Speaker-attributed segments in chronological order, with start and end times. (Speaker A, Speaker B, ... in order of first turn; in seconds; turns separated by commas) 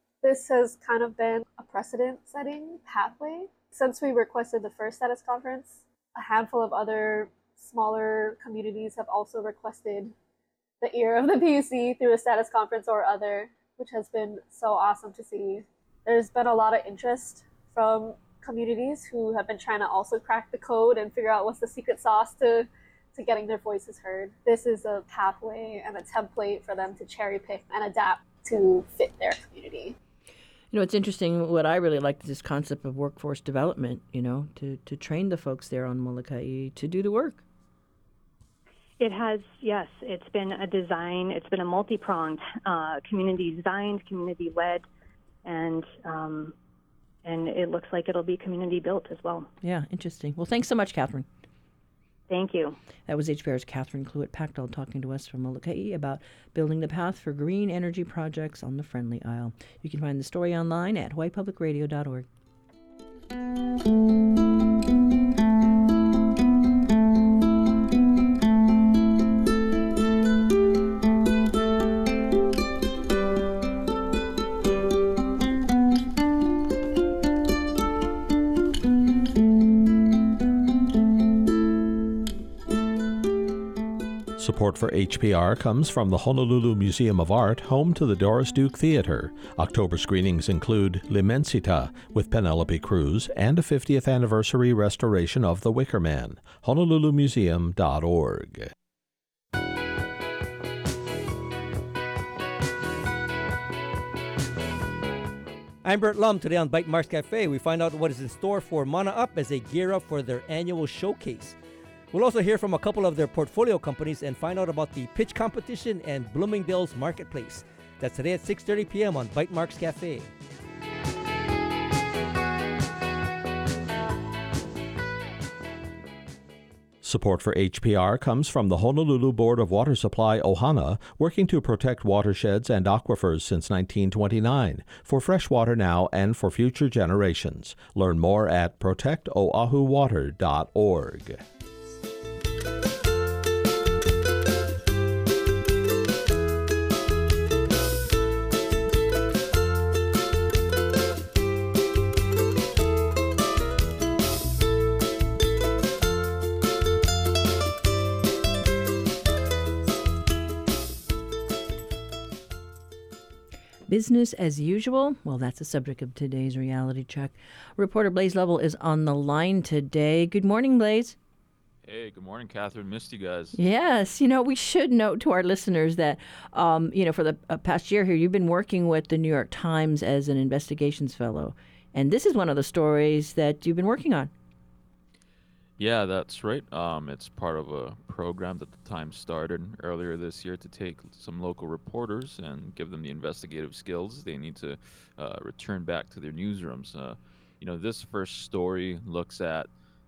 Speaker A: 0.2-10.1, Speaker A: 10.8-29.9, Speaker B: 30.7-37.4, Speaker C: 39.0-44.9, Speaker C: 45.5-46.5, Speaker C: 47.2-49.5, Speaker B: 49.6-51.3, Speaker C: 52.3-52.8, Speaker B: 53.1-62.3, Speaker D: 84.4-98.7, Speaker E: 105.8-111.6, Speaker E: 112.1-120.3, Speaker D: 127.0-141.4, Speaker B: 163.9-171.2, Speaker F: 171.9-173.6, Speaker B: 173.5-184.3, Speaker F: 185.8-199.7